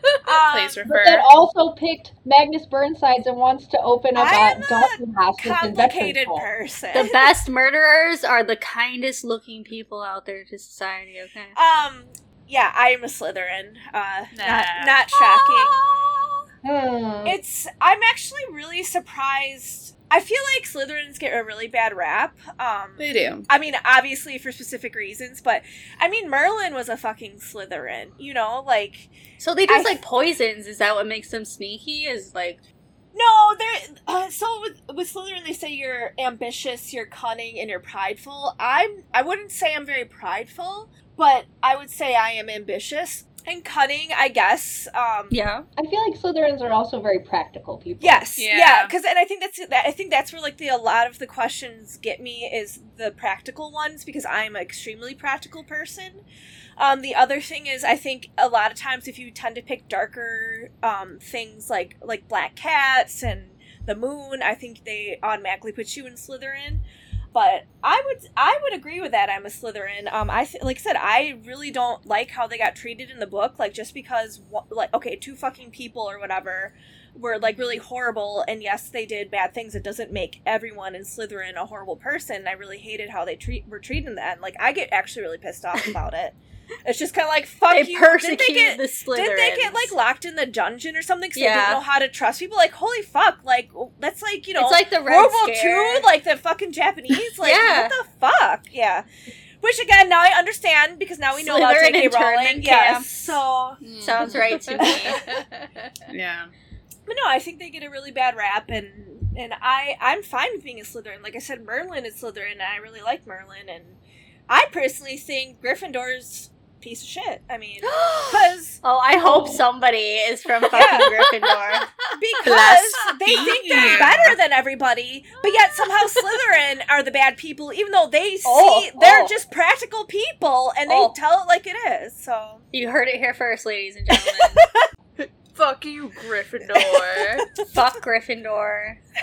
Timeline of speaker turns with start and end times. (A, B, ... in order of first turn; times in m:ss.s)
0:00.2-0:00.9 A
0:00.5-0:01.3 B
0:00.8-0:06.5 C
0:04.1-0:07.3 A
0:06.9-0:11.6 D
0:11.6-0:15.9 A
0:14.3-0:15.0 B
0:16.6-0:17.4 C
0:17.2-0:29.1 A
0:23.0-0:23.5 B
0:29.4-0:32.6 D
0:29.7-0:30.0 A
0:33.1-0:45.4 A
0:45.3-0:45.6 D
0:45.8-0:48.2 C
0:48.0-0:56.2 A
0:48.4-0:48.9 B
0:56.8-1:39.0 A
1:17.4-1:17.8 B
1:27.7-1:29.9 D
1:31.4-1:31.8 D
1:34.6-1:36.1 D
1:37.4-1:37.9 D
1:39.6-1:45.2 A
1:41.3-1:43.4 D
1:43.8-1:45.4 B
1:44.0-1:45.2 D
1:45.3-1:45.8 E
1:46.1-1:46.5 B
1:47.1-1:58.8 A
1:57.8-2:02.0 D
2:00.7-2:01.1 A
2:00.8-2:01.6 E
2:02.1-2:12.6 A
2:02.4-2:04.4 B
2:03.4-2:04.0 E
2:05.4-2:06.4 E
2:08.4-2:09.3 D
2:10.9-2:11.1 D
2:12.7-2:14.7 D
2:15.5-2:17.4 E
2:16.8-2:17.6 A
2:17.6-2:19.0 D